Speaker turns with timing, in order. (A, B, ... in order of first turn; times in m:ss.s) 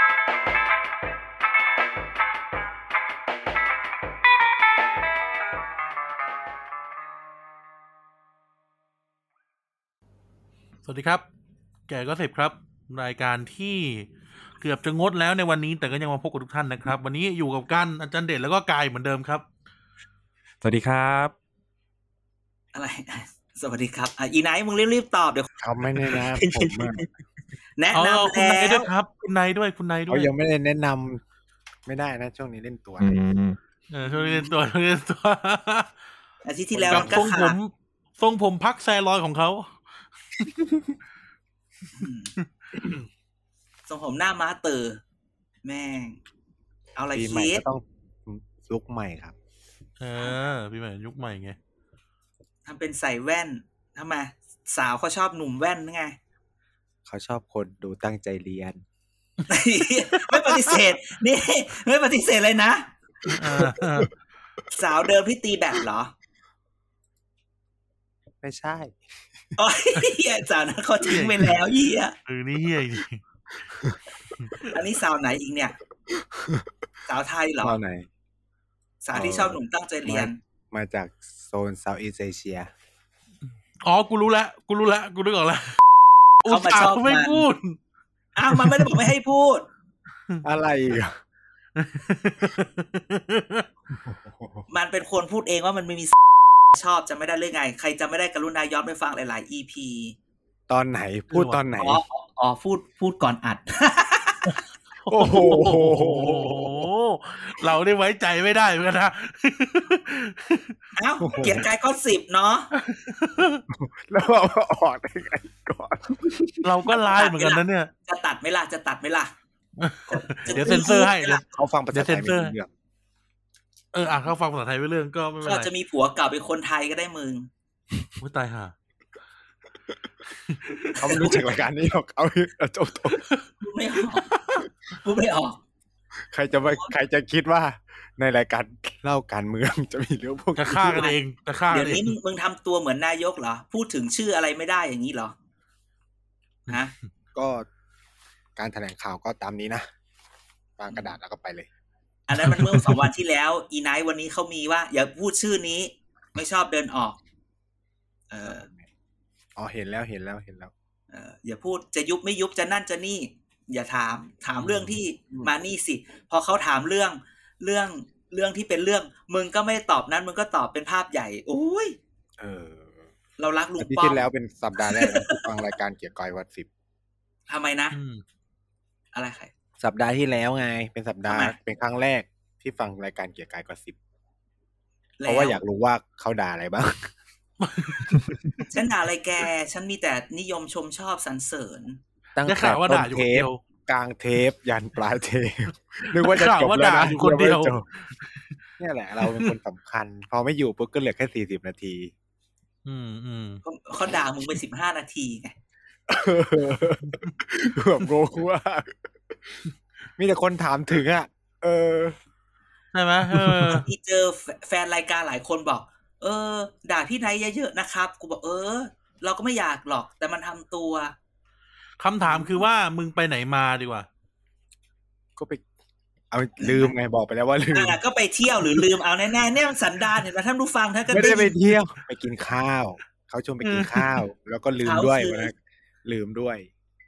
0:10.8-0:11.2 A
0:11.9-0:14.1 A
0:14.6-0:19.4 A
0:20.6-0:21.3 B
0:22.7-0:25.5 C
0:25.6-0:27.0 D
0:25.8-0:27.1 B
0:27.8-0:28.9 C
0:27.9-0:30.3 A
0:30.1-0:31.2 D
0:31.8-0:33.2 D
0:33.0-0:33.6 B
0:33.9-0:35.9 A
0:34.1-0:34.4 C
0:36.4-0:37.6 C
0:36.7-0:37.3 D
0:36.9-0:39.7 A
0:42.0-0:42.3 C
0:43.9-0:45.0 C
0:45.6-0:46.2 C
0:47.0-0:47.6 C
0:47.1-0:49.3 D
0:50.0-0:51.6 A
0:52.6-0:56.2 C
0:57.0-0:58.8 D
0:59.5-1:02.9 C
1:03.2-1:04.0 D
1:03.2-1:04.1 A
1:04.7-1:06.1 C
1:08.4-1:09.0 D
1:09.6-1:12.1 C
1:11.0-1:11.6 A
1:12.2-1:13.2 A
1:14.4-1:14.6 A
1:14.7-1:15.8 C
1:16.1-1:16.7 D
1:17.1-1:17.8 C
1:17.6-1:18.1 D
1:19.0-1:20.4 C
1:19.1-1:22.7 D
1:23.8-1:25.8 A
1:26.4-1:27.8 A
1:26.5-1:27.4 C
1:28.3-1:29.7 C
1:28.5-1:29.0 A
1:30.4-1:31.1 D
1:31.8-1:33.6 A
1:33.9-1:34.6 D
1:34.7-1:36.2 C
1:36.7-1:40.1 C
1:40.7-1:42.0 D
1:41.3-1:41.6 A
1:41.8-1:44.6 C
1:45.0-1:50.8 A
1:45.1-1:46.9 D
1:51.0-1:52.7 C
1:51.2-1:51.7 D
1:52.8-1:53.6 A
1:53.7-1:56.6 D
1:56.6-1:57.9 A
1:56.9-1:59.3 C
1:59.8-2:02.5 A
2:00.1-2:01.4 C
2:00.4-2:00.9 D
2:01.5-2:02.7 D
2:03.9-2:05.7 A
2:05.4-2:07.5 C
2:08.2-2:08.7 A
2:10.5-2:11.4 A
2:11.0-2:13.2 D
2:11.0-2:11.4 C
2:13.1-2:13.4 A
2:13.6-2:14.2 C
2:14.2-2:14.6 A
2:15.0-2:15.6 C
2:16.3-2:21.1 D
2:16.6-2:16.9 C
2:20.6-2:22.1 A
2:20.9-2:21.2 C
2:21.7-2:25.3 C
2:26.7-2:26.9 C
2:27.3-2:27.7 D
2:28.6-2:29.8 D
2:30.8-2:31.7 D
2:32.3-2:37.2 C
2:32.4-2:33.0 A
2:38.3-2:38.7 C
2:38.4-2:38.9 D
2:39.6-2:40.7 D
2:41.1-2:52.0 C
2:44.5-2:45.0 A
2:52.4-2:52.9 D
2:53.4-2:54.3 C
2:53.8-2:56.7 D
2:54.8-2:55.4 C
2:57.5-2:58.0 C
2:57.9-2:58.2 A
2:59.1-2:59.5 C
2:59.8-3:04.0 D
3:01.3-3:01.5 C
3:05.2-3:05.6 C
3:05.2-3:07.1 D
3:07.6-3:08.4 A
3:07.9-3:08.7 D
3:08.7-3:12.0 C
3:12.3-3:17.8 D
3:12.4-3:13.6 A
3:16.0-3:17.8 A
3:18.8-3:22.1 D
3:19.2-3:19.5 A
3:22.8-3:23.6 A
3:23.6-3:25.5 C
3:26.1-3:29.0 D
3:27.0-3:27.3 A
3:30.2-3:32.2 D
3:32.9-3:33.9 A
3:33.3-3:33.8 D
3:33.7-3:41.1 C
3:42.0-3:44.1 A
3:42.2-3:42.6 D
3:45.4-3:45.6 D
3:46.3-3:48.0 D
3:46.6-3:46.9 C
3:47.7-3:51.6 C
3:51.1-3:56.7 D
3:53.6-3:54.2 A
3:54.8-3:55.5 C